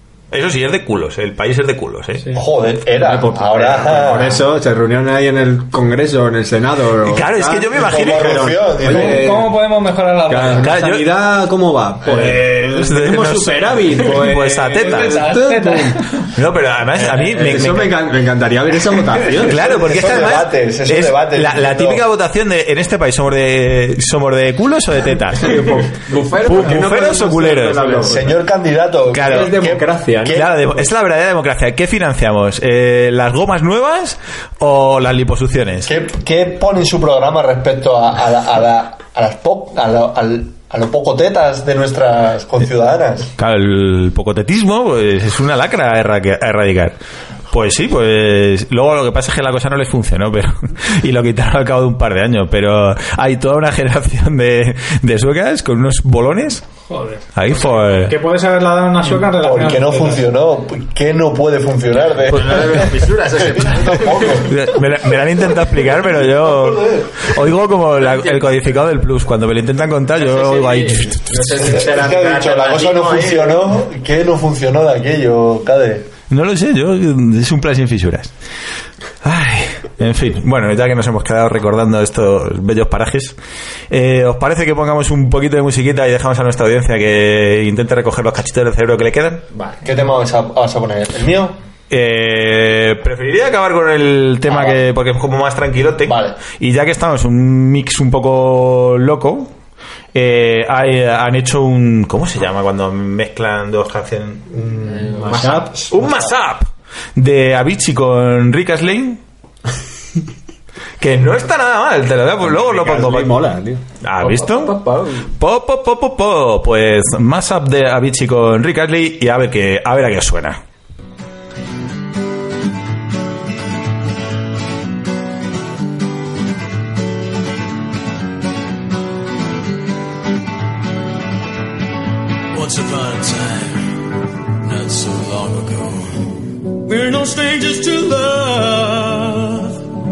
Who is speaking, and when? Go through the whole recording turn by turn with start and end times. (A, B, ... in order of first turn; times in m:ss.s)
0:00.3-0:02.3 A
0:02.3-0:04.4 B
0:03.0-0:09.6 C
0:07.0-0:08.6 A
0:07.8-0:09.3 B
0:08.8-0:10.8 D
0:10.3-0:16.1 C
0:10.5-0:11.1 A
0:12.0-0:15.2 A
0:14.7-0:16.3 D
0:16.3-0:18.0 A
0:17.0-0:17.8 E
0:17.0-0:20.0 C
0:19.4-0:25.8 A
0:19.6-0:22.1 B
0:25.4-0:28.4 C
0:25.9-0:27.1 E
0:26.4-0:28.0 A
0:27.7-0:28.1 E
0:28.0-0:30.5 B
0:29.1-0:29.6 A
0:29.2-0:30.9 C
0:30.3-0:35.9 A
0:35.8-0:43.3 B
0:43.4-0:47.0 A
0:47.5-0:56.7 A
0:56.9-1:00.2 D
0:57.4-0:58.2 A
0:59.1-1:04.7 B
1:02.3-1:04.4 E
1:04.4-1:11.6 A
1:06.0-1:07.4 B
1:08.0-1:08.8 E
1:10.2-1:13.6 E
1:11.6-1:16.1 B
1:16.3-1:18.3 A
1:19.2-1:23.4 A
1:23.9-1:29.4 A
1:29.5-1:29.8 E
1:29.8-1:31.6 B
1:31.9-1:39.5 A
1:34.5-1:34.8 B
1:36.0-1:36.4 B
1:40.1-1:49.2 A
1:44.8-1:45.8 E
1:45.1-1:46.3 C
1:51.0-1:53.4 A
1:52.4-1:53.8 C
1:54.0-1:54.8 A
1:54.2-1:55.3 E
1:55.4-2:00.6 A
2:12.6-2:13.8 F
2:14.9-2:15.9 A
2:16.8-2:19.8 F